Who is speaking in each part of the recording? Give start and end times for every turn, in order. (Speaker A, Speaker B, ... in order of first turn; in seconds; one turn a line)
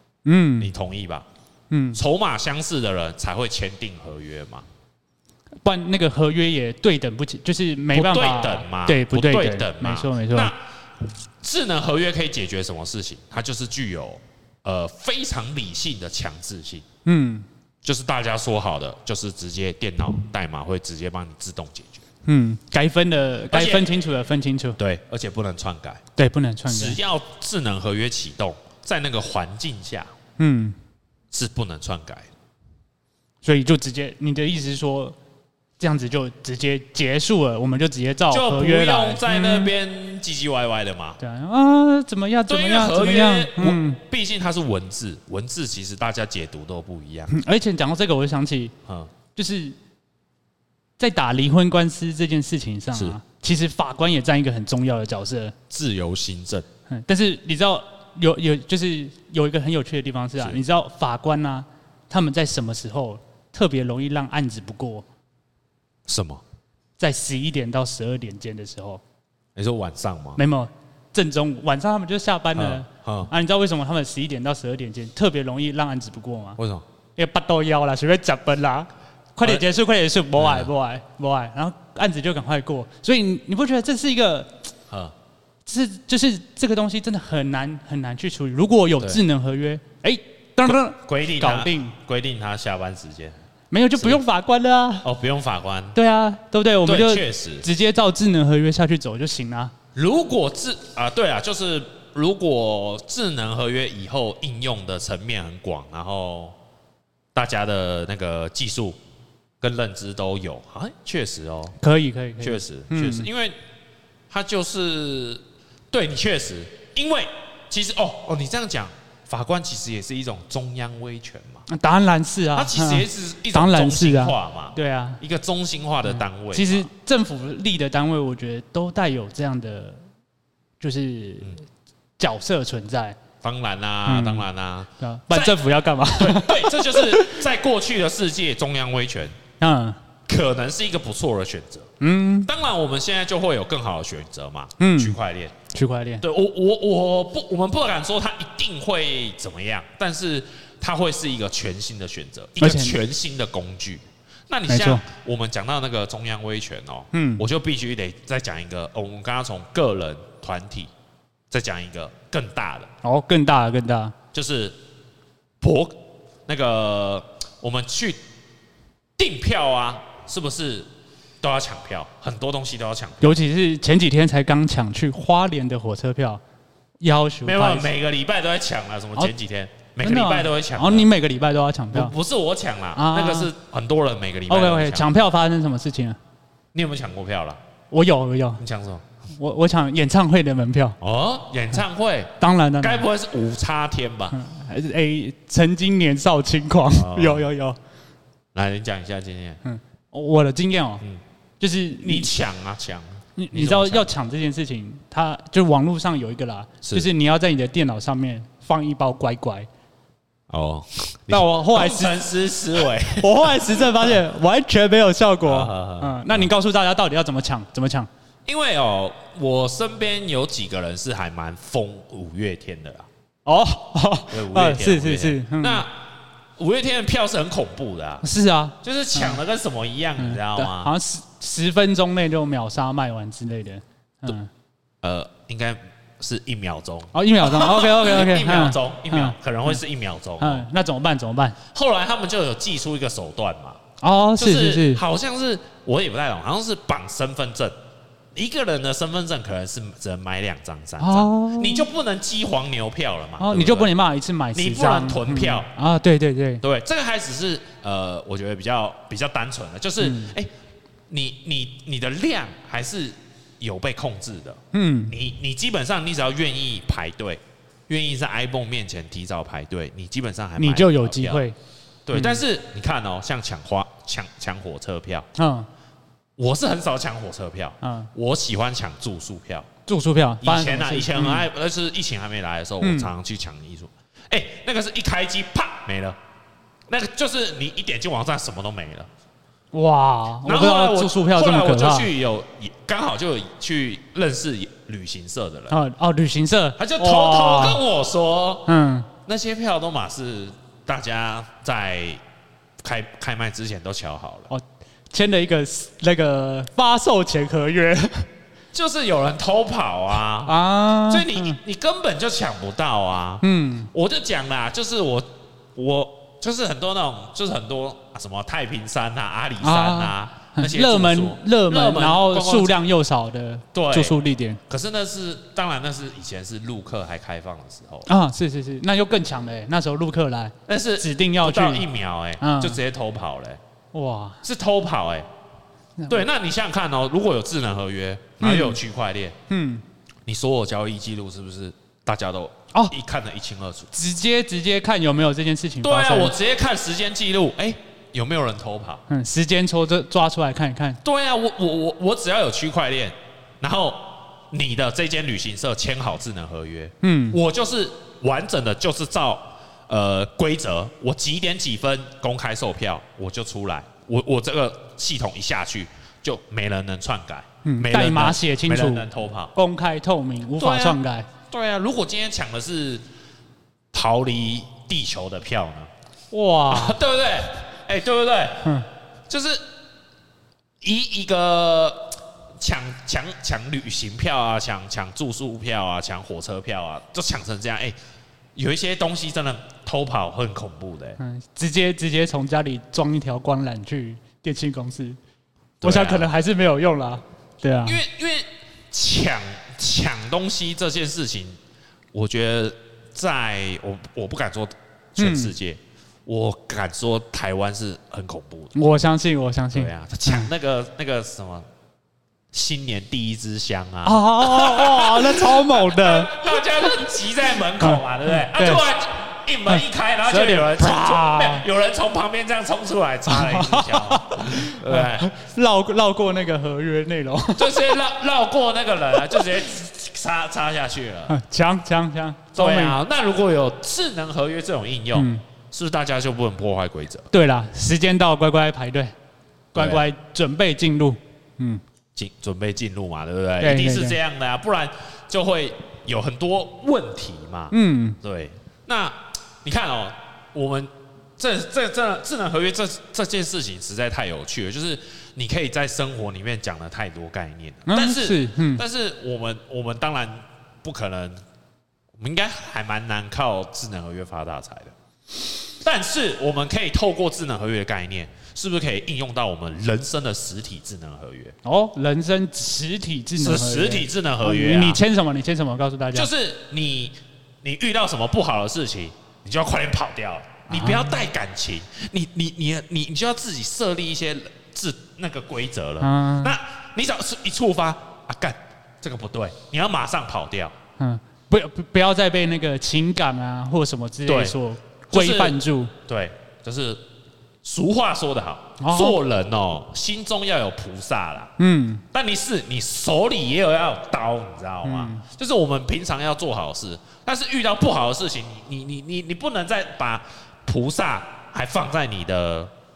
Speaker A: 0.2-0.7
Speaker B: 0.6-1.2
Speaker A: 1.7-2.0
Speaker B: 1.9-4.7
Speaker A: 5.6-10.5
Speaker B: 7.9-10.6
Speaker B: 11.4-16.8
Speaker A: 17.0-17.4
Speaker B: 17.8-22.0
Speaker A: 22.2-24.8
Speaker B: 23.5-23.9
Speaker B: 24.8-26.0
Speaker A: 26.1-27.0
Speaker B: 26.7-30.1
Speaker A: 30.4-30.8
Speaker B: 31.3-32.3
Speaker A: 33.4-35.1
Speaker A: 35.8-39.7
Speaker B: 38.3-41.2
Speaker A: 41.2-44.0
Speaker B: 42.5-47.3
Speaker A: 47.3-48.7
Speaker B: 48.9-49.1
Speaker A: 49.3-49.8
Speaker A: 51.0-55.5
Speaker B: 55.7-56.7
Speaker A: 56.9-65.0
Speaker B: 66.1-66.4
Speaker A: 67.0-69.0
Speaker B: 69.5-70.4
Speaker A: 70.4-76.6
Speaker B: 72.5-73.3
Speaker B: 76.6-76.8
Speaker A: 77.2-84.7
Speaker B: 80.3-80.7
Speaker A: 85.7-91.9
Speaker B: 90.7-93.3
Speaker A: 93.7-95.1
Speaker B: 95.0-96.0
Speaker A: 95.9-99.7
Speaker B: 96.8-97.6
Speaker B: 99.9-106.5
Speaker B: 107.3-109.0
Speaker B: 109.6-111.8
Speaker A: 111.8-113.3
Speaker B: 112.4-113.5
Speaker B: 114.3-121.6
Speaker A: 121.7-125.2
Speaker B: 122.5-126.9
Speaker A: 126.0-130.0
Speaker A: 130.8-131.6
Speaker A: 132.2-133.2
Speaker B: 133.4-139.4
Speaker A: 134.1-134.5
Speaker A: 135.0-137.4
Speaker A: 139.6-140.0
Speaker B: 140.3-141.9
Speaker A: 142.0-142.5
Speaker B: 142.4-145.5
Speaker A: 144.8-145.2
Speaker A: 145.7-146.2
Speaker B: 146.2-160.9
Speaker A: 152.6-153.0
Speaker A: 154.7-155.0
Speaker A: 157.1-157.4
Speaker B: 161.5-162.9
Speaker A: 163.0-164.1
Speaker B: 164.3-164.8
Speaker B: 165.6-168.2
Speaker B: 169.2-170.9
Speaker B: 171.4-173.4
Speaker A: 173.2-176.4
Speaker A: 177.0-177.9
Speaker B: 177.4-181.1
Speaker A: 180.0-182.1
Speaker B: 181.9-185.1
Speaker A: 182.9-183.5
Speaker A: 184.5-186.2
Speaker B: 186.7-187.6
Speaker A: 187.9-188.6
Speaker B: 188.6-189.1
Speaker A: 189.3-190.9
Speaker B: 191.0-194.4
Speaker A: 192.4-193.1
Speaker A: 194.3-197.8
Speaker B: 196.9-197.5
Speaker B: 198.5-199.6
Speaker A: 199.6-201.0
Speaker A: 201.6-202.3
Speaker B: 202.0-204.1
Speaker A: 203.4-209.7
Speaker B: 206.8-207.1
Speaker B: 210.5-214.2
Speaker A: 211.3-212.2
Speaker A: 213.0-218.1
Speaker B: 215.4-216.5
Speaker B: 218.4-223.1
Speaker A: 223.4-225.8
Speaker B: 224.3-226.0
Speaker B: 226.6-228.2
Speaker A: 228.2-229.4
Speaker B: 228.8-230.9
Speaker A: 230.2-234.5
Speaker B: 235.0-240.7
Speaker A: 237.1-239.8
Speaker A: 240.4-241.6
Speaker B: 241.7-243.8
Speaker A: 244.0-245.0
Speaker B: 244.4-247.7
Speaker B: 248.3-253.9
Speaker A: 251.0-251.9
Speaker A: 253.4-256.6
Speaker B: 254.5-255.7
Speaker B: 256.6-260.5
Speaker A: 260.0-260.3
Speaker B: 261.1-271.4
Speaker A: 264.7-265.1
Speaker A: 270.6-271.5
Speaker B: 272.1-275.2
Speaker A: 272.1-272.4
Speaker A: 275.4-275.7
Speaker B: 276.4-279.7
Speaker A: 277.8-278.1
Speaker A: 279.9-281.5
Speaker B: 280.4-286.2
Speaker A: 282.8-283.1
Speaker B: 286.9-289.1
Speaker A: 289.7-292.1
Speaker B: 290.4-295.7
Speaker A: 295.7-297.8
Speaker B: 296.8-298.7
Speaker A: 298.6-299.1
Speaker B: 299.2-302.2
Speaker B: 302.8-304.5
Speaker A: 304.5-308.3
Speaker B: 308.7-322.7
Speaker A: 310.4-311.6
Speaker A: 313.4-313.9
Speaker A: 319.6-324.6
Speaker B: 323.7-324.2
Speaker B: 324.7-328.1
Speaker A: 328.1-331.9
Speaker B: 330.6-333.6
Speaker A: 332.4-332.8
Speaker A: 333.9-334.4
Speaker B: 334.4-335.3
Speaker A: 336.0-336.2
Speaker B: 336.1-339.4
Speaker A: 338.4-338.8
Speaker A: 339.5-339.8
Speaker B: 340.2-343.9
Speaker A: 343.9-346.3
Speaker B: 345.8-349.0
Speaker A: 349.1-351.0
Speaker B: 351.0-369.5
Speaker A: 357.0-357.4
Speaker A: 367.6-371.3
Speaker B: 370.6-373.0
Speaker B: 373.9-375.9
Speaker A: 376.3-377.0
Speaker B: 376.7-378.7
Speaker B: 379.3-379.6
Speaker B: 380.8-387.9
Speaker B: 388.6-391.2
Speaker A: 391.2-395.2
Speaker B: 395.8-396.3
Speaker A: 395.8-398.0
Speaker B: 397.8-401.6
Speaker B: 402.1-408.7
Speaker A: 405.2-405.5
Speaker A: 408.7-410.5
Speaker B: 409.7-411.7
Speaker B: 412.5-425.3
Speaker A: 414.0-416.5
Speaker A: 417.8-418.8
Speaker A: 419.7-421.6
Speaker A: 423.3-428.0
Speaker B: 427.6-431.3
Speaker A: 431.3-433.0
Speaker B: 432.5-437.3
Speaker A: 435.1-435.4
Speaker A: 437.3-439.1
Speaker A: 439.7-441.8
Speaker B: 439.7-440.0
Speaker B: 442.1-461.4
Speaker A: 443.6-444.2
Speaker A: 447.7-448.2
Speaker A: 457.9-458.8
Speaker B: 462.2-464.9
Speaker B: 465.7-471.6
Speaker A: 471.6-476.3
Speaker B: 473.4-475.0
Speaker B: 476.1-490.7
Speaker A: 480.7-481.2
Speaker A: 486.0-486.6
Speaker A: 491.0-495.9
Speaker B: 494.2-494.6
Speaker B: 495.1-497.0
Speaker B: 497.6-501.5
Speaker A: 498.8-499.2
Speaker A: 501.6-502.0
Speaker B: 502.1-512.7
Speaker A: 504.8-505.2